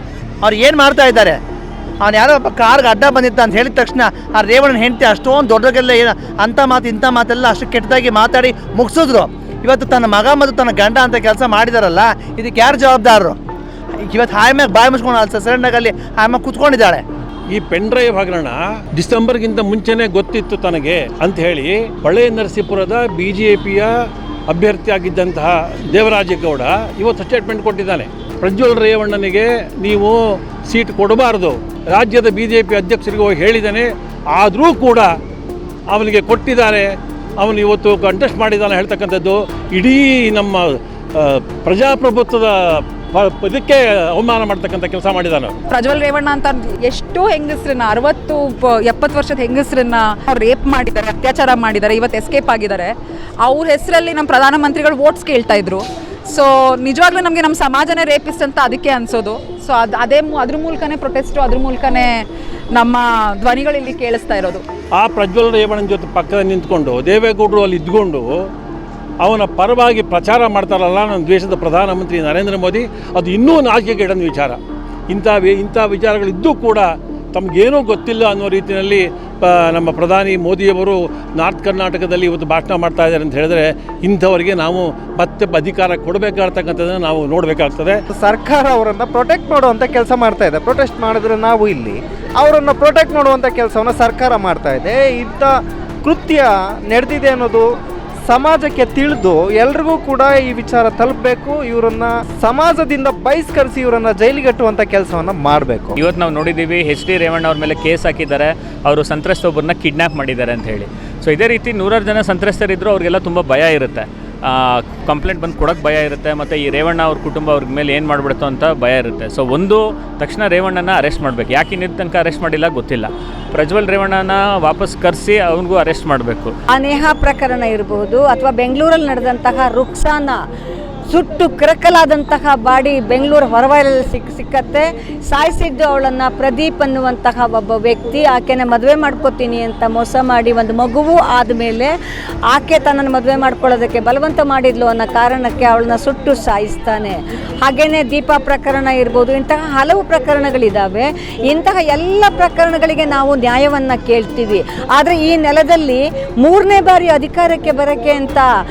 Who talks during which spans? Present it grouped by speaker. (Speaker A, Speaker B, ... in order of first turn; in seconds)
Speaker A: 0.4-1.4, 2.0-13.4, 14.0-17.0
Speaker B: 17.5-23.9, 24.5-30.1, 30.6-35.1, 35.9-45.5, 64.9-68.3, 69.2-74.6, 75.1-88.0
Speaker C: 45.7-64.6
Speaker D: 88.1-97.7, 98.2-106.0
Speaker E: 106.0-126.5
Speaker F: 126.7-130.4, 131.1-141.9, 142.5-158.5